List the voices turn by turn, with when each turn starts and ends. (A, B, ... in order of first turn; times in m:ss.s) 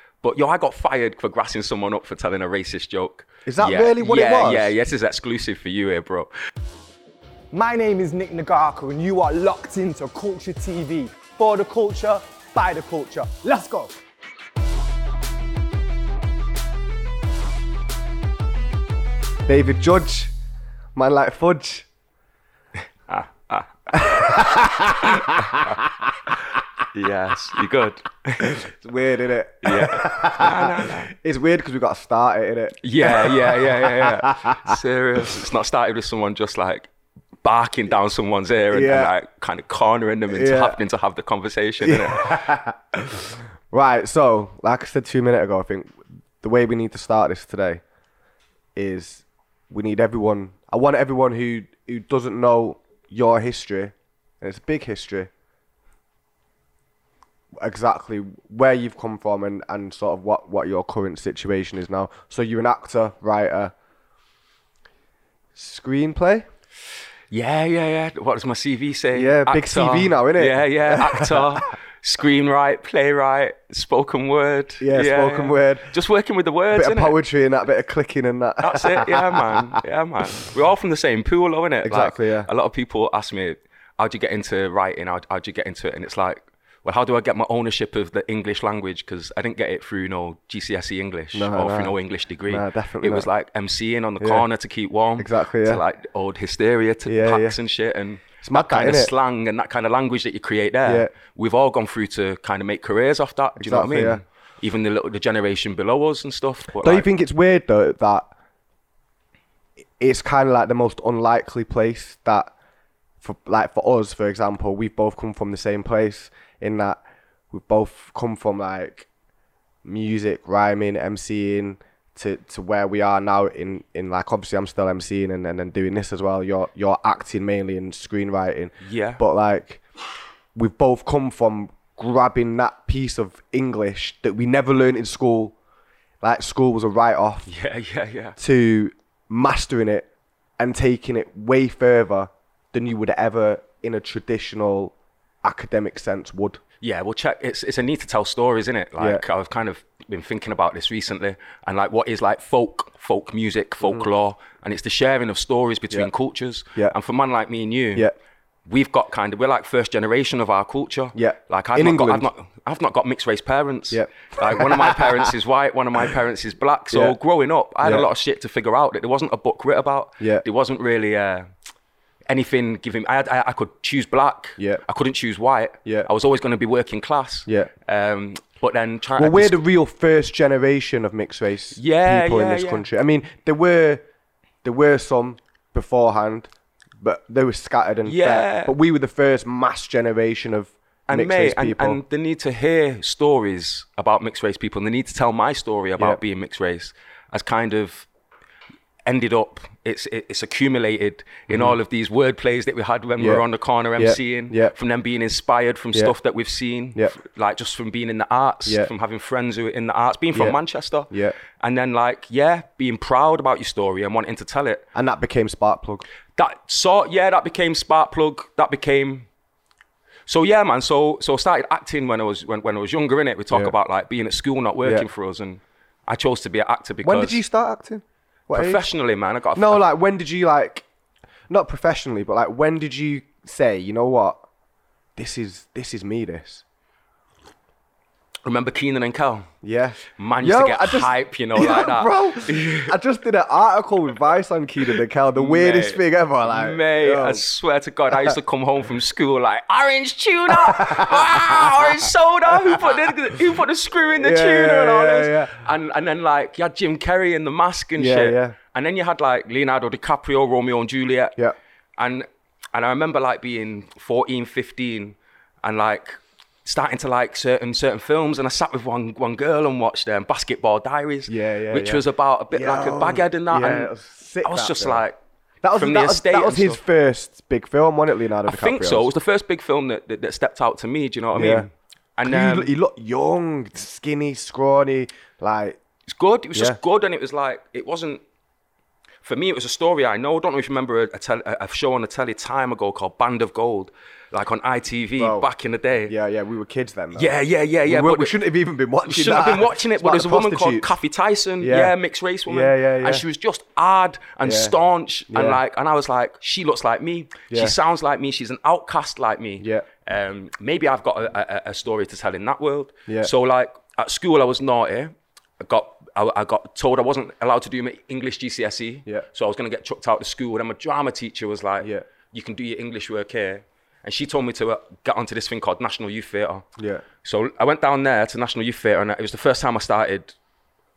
0:00.2-0:06.3 A
0:03.5-0:04.7 B
0:07.5-0:13.9 C
0:19.5-0:20.3 B
0:21.0-0:21.9 B
0:23.1-0:25.7 A
0:23.9-0:26.0 B
0:26.9-0:28.6 A
0:28.4-0:34.8 B
0:29.6-0:31.1 A
0:32.8-0:36.9 A
0:37.4-0:42.5 A
0:38.7-0:39.1 B
0:40.3-0:40.8 B
0:41.8-0:47.8 B
0:48.8-0:55.3 B
0:57.6-1:03.7 B
1:05.6-1:06.5 B
1:07.3-1:17.2 A
1:09.1-1:11.6 B
1:14.8-1:15.9 B
1:16.7-1:19.7 B
1:18.6-1:47.1 A
1:21.8-1:22.5 B
1:31.3-1:32.0 B
1:32.5-1:33.3 B
1:34.2-1:34.4 B
1:35.2-1:35.8 B
1:37.1-1:37.6 B
1:38.4-1:39.1 B
1:40.9-1:41.1 B
1:43.6-1:44.2 B
1:46.8-1:48.3 B
1:50.0-1:52.5 B
1:53.2-1:57.0 B
1:57.5-1:59.1 B
1:59.8-2:09.8 B
2:08.8-2:09.2 A
2:10.6-2:15.6 B
2:16.2-2:17.5 B
2:17.5-2:18.4 A
2:18.4-2:26.6 B
2:26.8-2:38.1 A
2:29.0-2:29.2 B
2:38.7-2:51.5 A
2:41.1-2:42.3 B
2:43.9-2:45.3 B
2:46.9-2:47.2 B
2:50.2-2:50.4 B
2:52.3-2:59.6 A
2:59.2-3:04.0 B
3:01.8-3:02.9 A
3:04.6-3:06.5 B
3:07.0-3:12.0 B
3:08.0-3:08.8 A
3:11.1-3:18.1 A
3:19.1-3:34.8 A
3:21.5-3:21.8 B
3:23.2-3:23.4 B
3:24.0-3:24.7 B
3:28.7-3:28.9 B
3:31.1-3:31.4 B
3:35.0-3:36.0 B
3:36.4-3:39.3 A
3:40.3-3:47.4 A
3:47.0-3:48.8 B
3:48.5-3:49.8 A
3:49.6-3:50.8 B
3:51.5-3:54.4 B
3:55.2-3:56.6 B
3:58.4-3:59.5 A
3:59.6-4:07.4 B
4:00.1-4:03.0 A
4:05.3-4:21.4 A
4:10.5-4:13.2 B
4:14.2-4:15.6 B
4:18.0-4:18.6 B
4:22.0-4:33.9 A
4:31.3-4:35.0 B
4:34.4-4:35.2 A
4:35.6-4:39.1 B
4:35.7-4:36.8 A
4:38.5-4:42.7 A
4:41.4-4:41.7 B
4:42.2-4:45.8 B
4:46.1-4:48.2 A
4:49.2-4:56.1 A
4:55.2-4:55.5 B
4:56.1-4:57.3 B
4:57.1-4:58.4 A
4:57.9-5:00.9 B
4:59.1-5:26.6 A
5:01.6-5:02.0 B
5:02.5-5:03.2 B
5:04.4-5:04.8 B
5:05.3-5:05.6 B
5:07.5-5:07.8 B
5:09.6-5:09.9 B
5:26.8-5:27.0 B
5:27.2-5:30.3 A